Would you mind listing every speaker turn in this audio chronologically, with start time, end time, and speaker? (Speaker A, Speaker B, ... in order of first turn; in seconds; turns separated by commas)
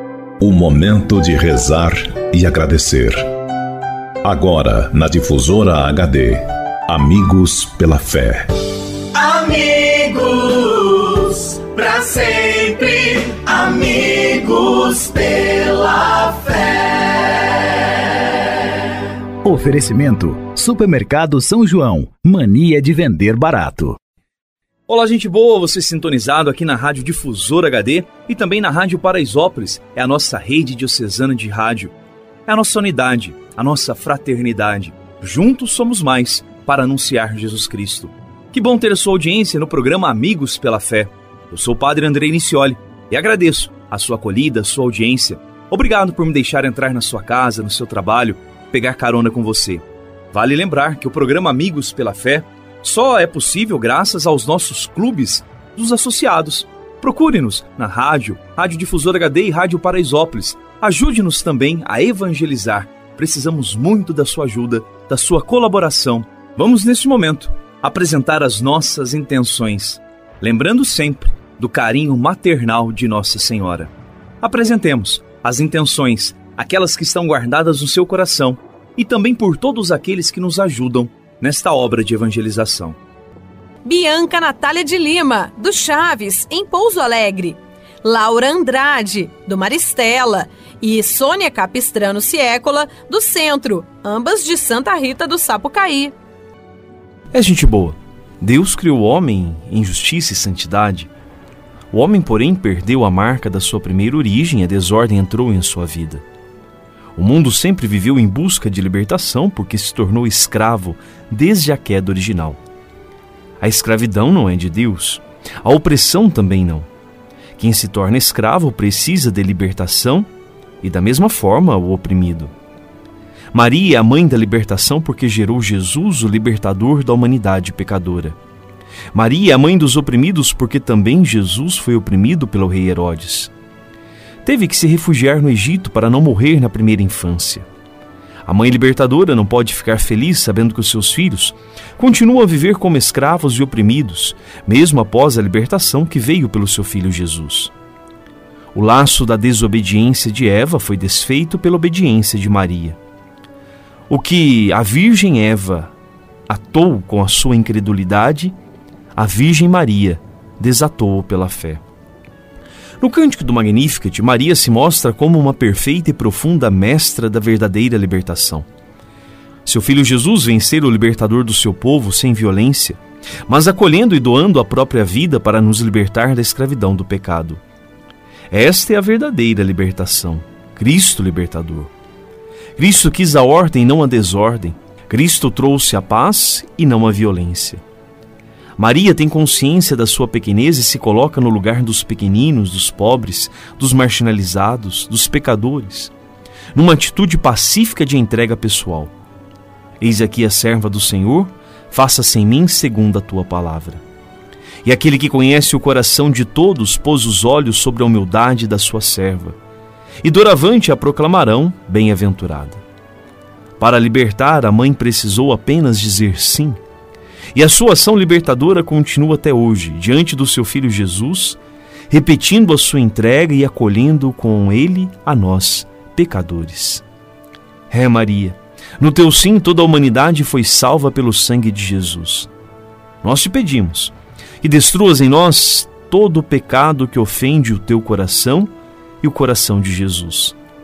Speaker A: 0.4-3.3, Speaker A: 4.2-8.5, Speaker B: 9.2-15.9, Speaker B: 16.5-16.9, Speaker C: 19.4-24.0, Speaker D: 24.9-31.9, Speaker D: 32.5-49.8, Speaker E: 35.7-36.0, Speaker E: 41.7-42.5, Speaker E: 43.8-45.0, Speaker E: 48.1-49.8, Speaker D: 50.3-62.4, Speaker E: 51.1-52.3, Speaker E: 53.2-53.7, Speaker E: 57.9-71.0, Speaker D: 63.9-65.9, Speaker D: 66.6-67.2, Speaker D: 69.3-83.0, Speaker E: 77.3-77.7, Speaker F: 83.8-96.1, Speaker E: 97.3-101.1, Speaker E: 101.9-106.2, Speaker E: 107.1-112.6, Speaker E: 113.6-116.9, Speaker E: 117.6-120.3, Speaker E: 120.8-122.5, Speaker E: 123.5-128.4, Speaker E: 129.1-133.5, Speaker E: 134.4-137.7, Speaker E: 138.5-147.7, Speaker E: 148.7-153.0, Speaker E: 154.1-155.9, Speaker E: 156.5-158.6, Speaker E: 159.2-161.8, Speaker E: 163.0-168.7, Speaker E: 169.7-177.6, Speaker E: 178.5-181.9, Speaker E: 182.8-187.8, Speaker E: 188.8-196.1, Speaker E: 196.7-199.1, Speaker E: 200.0-204.0, Speaker E: 204.8-209.6, Speaker E: 210.2-212.8, Speaker E: 213.8-216.8, Speaker E: 217.5-227.0, Speaker E: 227.9-232.5, Speaker E: 233.2-240.6